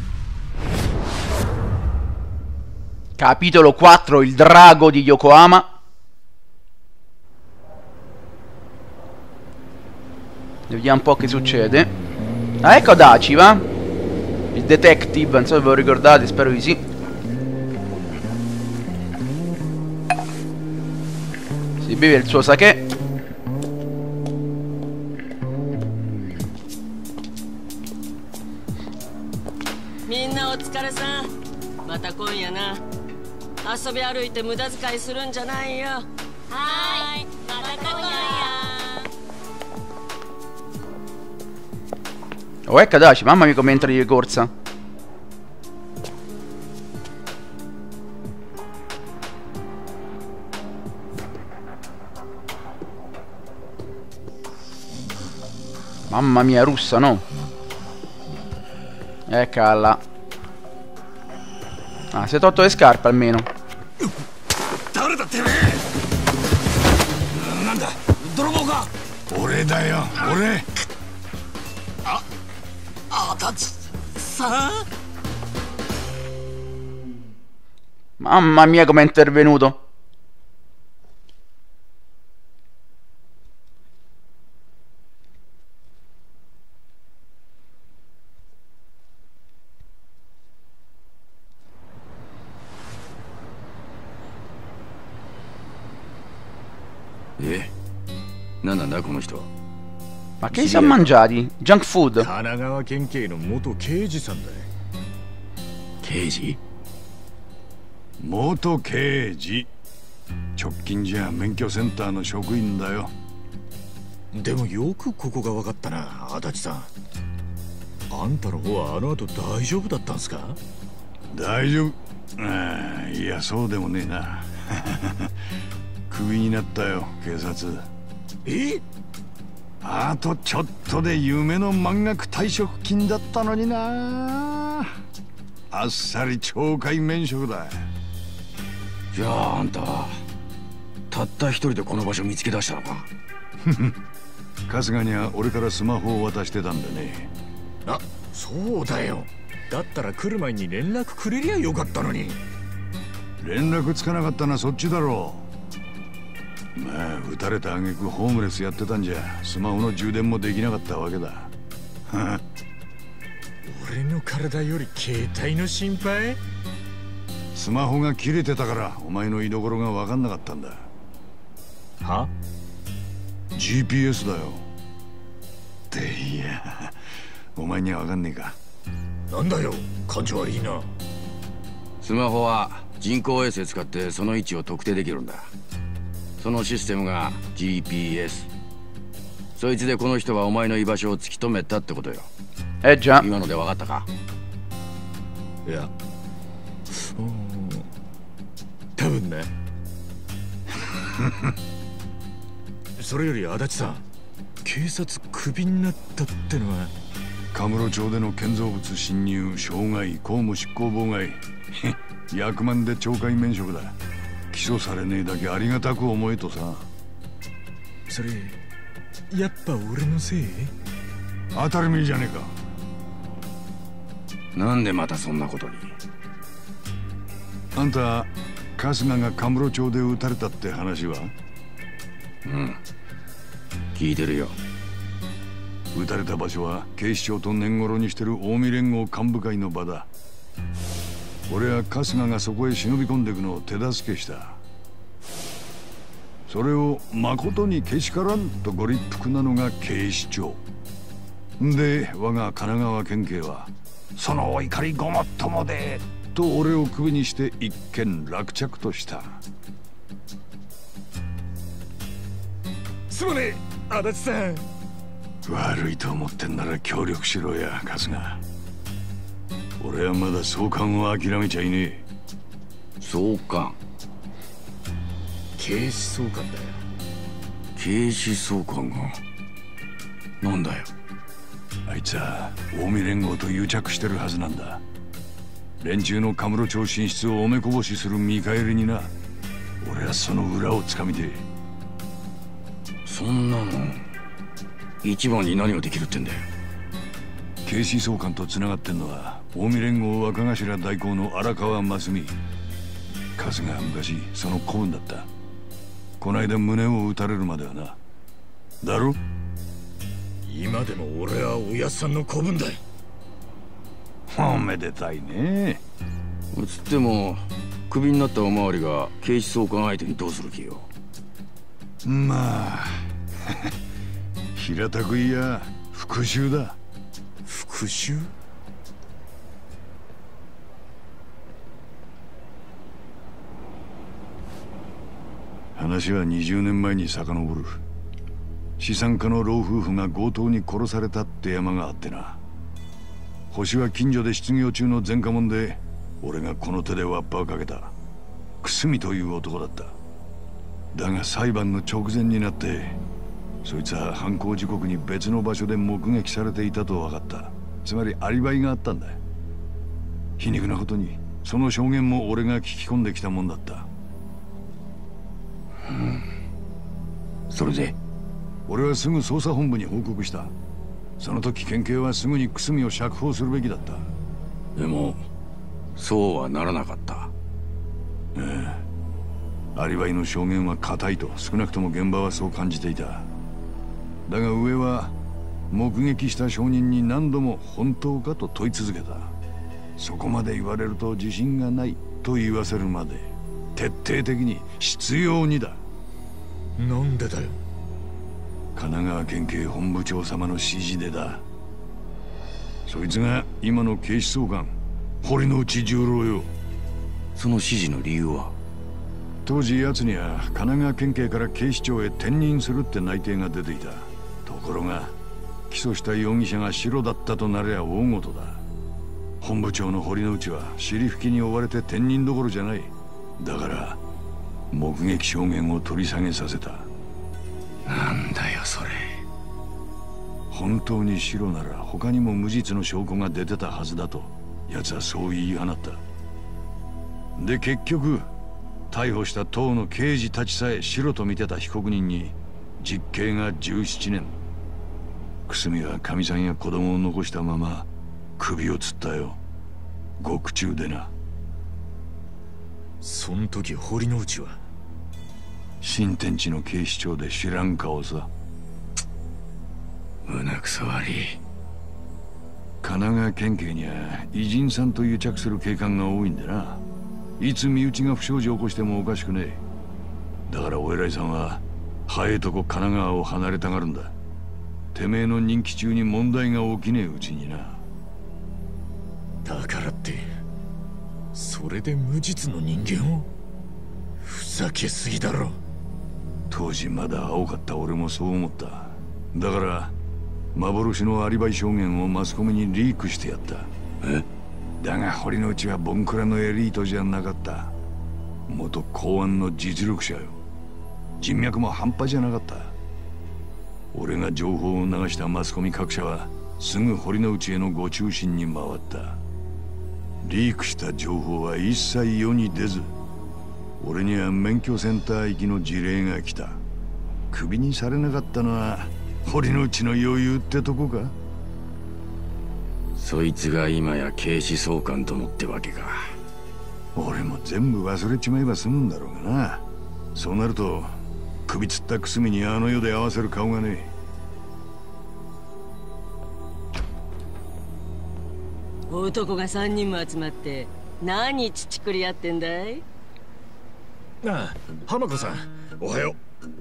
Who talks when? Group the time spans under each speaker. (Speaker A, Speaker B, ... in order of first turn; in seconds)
Speaker A: 3.2-5.7, 10.7-11.9, 12.6-13.6, 14.5-16.8, 21.8-22.8, 42.7-44.5, 56.1-57.2, 59.3-60.0, 62.1-63.5, 78.2-79.8, 100.4-102.3, 192.8-193.2
Speaker B: 30.1-31.3, 31.8-32.8, 33.6-39.1, 538.9-542.8
Speaker C: 64.9-65.8, 73.1-74.8, 102.2-104.7, 114.3-116.9, 118.1-120.6, 128.4-128.8, 147.8-152.4, 163.6-166.4, 172.0-172.3, 179.3-180.9, 195.7-195.9, 196.9-197.9, 199.0-199.5, 203.0-204.0, 204.6-206.9, 218.1-218.6, 219.3-220.7, 263.1-264.6, 275.6-276.8, 310.4-312.8, 327.5-328.3, 396.8-397.6, 453.0-454.6, 479.4-480.3, 481.3-483.3, 484.2-485.6, 544.2-546.2
Speaker D: 67.3-68.9, 97.4-97.7, 98.6-99.5, 100.5-101.0, 106.0-106.6, 139.1-140.2, 141.1-143.1, 182.0-185.5, 186.4-188.5, 189.6-192.3, 193.2-194.1, 224.5-225.9, 232.4-232.8, 233.9-234.6, 273.0-273.8, 277.8-279.2, 280.4-280.9, 293.1-294.1, 295.0-296.4, 316.5-320.9, 365.9-366.3, 367.5-367.9, 374.8-375.2, 375.9-377.3, 407.4-408.5, 427.9-429.1, 460.2-461.4, 523.0-526.1
Speaker E: 69.3-70.7, 108.2-109.7, 110.6-113.1, 121.3-125.3, 126.1-127.9, 129.8-135.0, 135.7-137.9, 143.6-144.0, 144.7-147.3, 153.4-155.5, 156.8-161.5, 162.1-162.4, 167.5-170.9, 173.5-174.7, 175.9-177.0, 177.6-178.6, 207.5-214.0, 214.5-216.9, 221.5-222.6, 227.8-231.3, 235.9-240.1, 241.5-244.6, 246.5-250.6, 251.6-259.4, 265.4-268.4, 269.8-272.0, 281.9-284.8, 285.8-289.1, 289.8-291.4, 297.6-302.4, 303.4-305.3, 306.2-308.0, 308.8-309.2, 314.3-315.8, 322.0-323.7, 324.6-326.8, 335.8-337.8, 338.8-342.4, 343.5-347.9, 348.6-349.9, 350.9-353.0, 353.6-359.2, 360.4-363.9, 368.7-370.5, 371.2-374.1, 378.4-378.8, 379.8-383.3, 384.2-385.1, 385.7-389.3, 390.0-395.8, 398.8-401.4, 402.9-406.5, 409.4-415.1, 415.7-418.6, 419.4-424.0, 424.7-426.9, 430.5-436.0, 437.4-438.3, 438.9-444.4, 445.5-449.4, 450.2-451.1, 455.8-458.3, 462.8-466.8, 467.4-469.6, 470.5-474.1, 474.9-477.8, 486.5-489.9, 490.5-493.7, 494.8-497.7, 498.5-500.4, 501.2-502.7, 503.9-509.2, 510.2-512.9, 513.8-516.6, 517.3-521.1, 527.0-531.0, 531.5-533.9